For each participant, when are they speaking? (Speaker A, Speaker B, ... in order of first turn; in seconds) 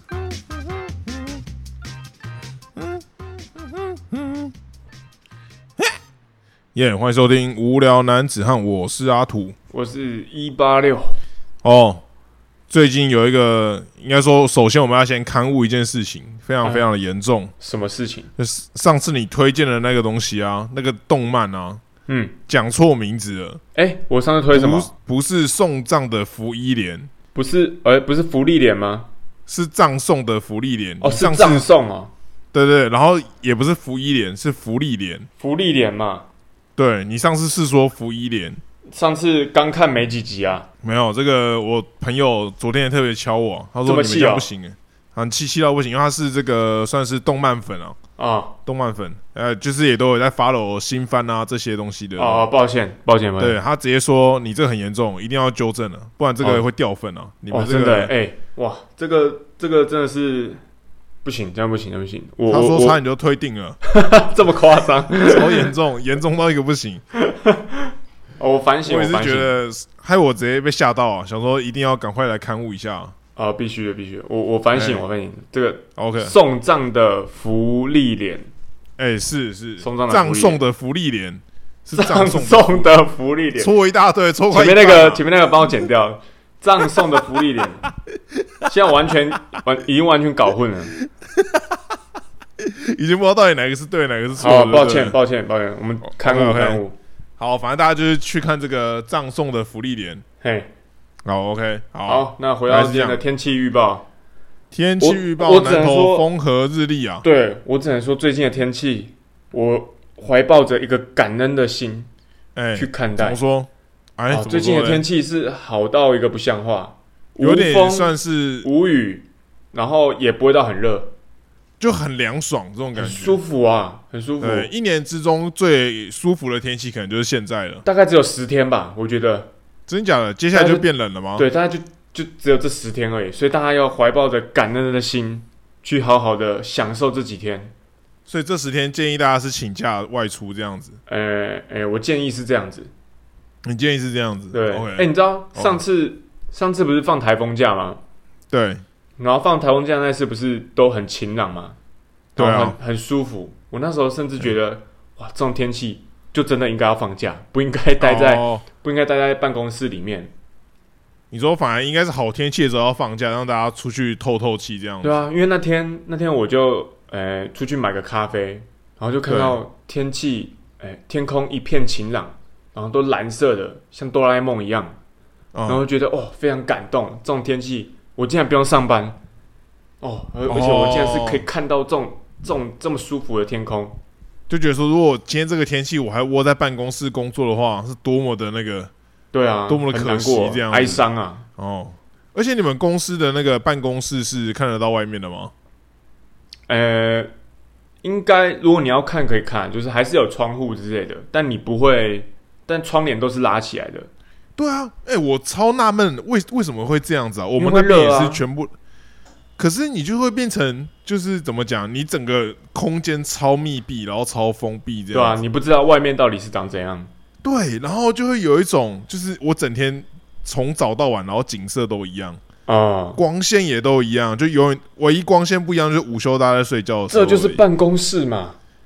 Speaker A: 3.8-4.5, 6.7-9.5, 11.6-12.0, 12.7-17.5, 18.4-21.8, 22.5-23.6, 24.5-27.1, 29.5-31.6, 32.5-35.3, 36.8-38.6, 40.8-48.0, 48.6-52.4, 53.4-58.1, 62.5-63.8, 65.2-67.0, 68.8-73.1, 74.7-75.0, 76.0-76.3, 79.0-82.9, 83.6-85.2, 88.3-88.7, 91.0-91.8, 92.6-95.2, 96.0-96.8, 97.4-100.2, 101.2-103.2, 104.7-107.2, 112.5-115.0, 117.4-118.7, 121.8-123.4, 124.4-127.8, 129.9-131.4, 138.3-141.0, 143.6-145.8, 148.5-148.8, 152.3-152.8, 158.0-158.6, 161.3-165.2, 169.3-169.6, 175.5-175.8, 180.5-181.4, 184.5-188.9, 189.7-191.0, 191.6-195.5, 204.6-208.7, 209.6-215.4, 217.4-222.4, 223.2-227.6
Speaker B: 9.7-11.2, 17.6-18.3, 22.1-22.4, 23.7-24.9, 27.3-29.1, 31.0-32.1, 35.4-36.3, 38.9-40.7, 43.8-44.5, 48.2-48.5, 52.2-53.5, 57.5-60.6, 61.2-63.0, 63.8-65.7, 67.2-69.5, 73.3-78.5, 79.8-80.6, 81.9-83.7, 84.5-87.9, 88.7-91.0, 94.4-96.9, 100.4-100.7, 102.0-104.0, 105.0-106.2, 107.2-112.1, 112.7-113.4, 114.3-121.1, 123.0-124.7, 127.8-129.5, 130.5-137.7, 141.1-142.9, 144.5-148.0, 149.2-151.8, 152.3-160.3, 165.0-175.0, 175.7-179.2, 180.0-184.0, 189.3-191.4, 196.7-197.3, 198.0-204.1, 207.6-208.4, 215.1-217.1, 222.7-223.2, 227.1-228.6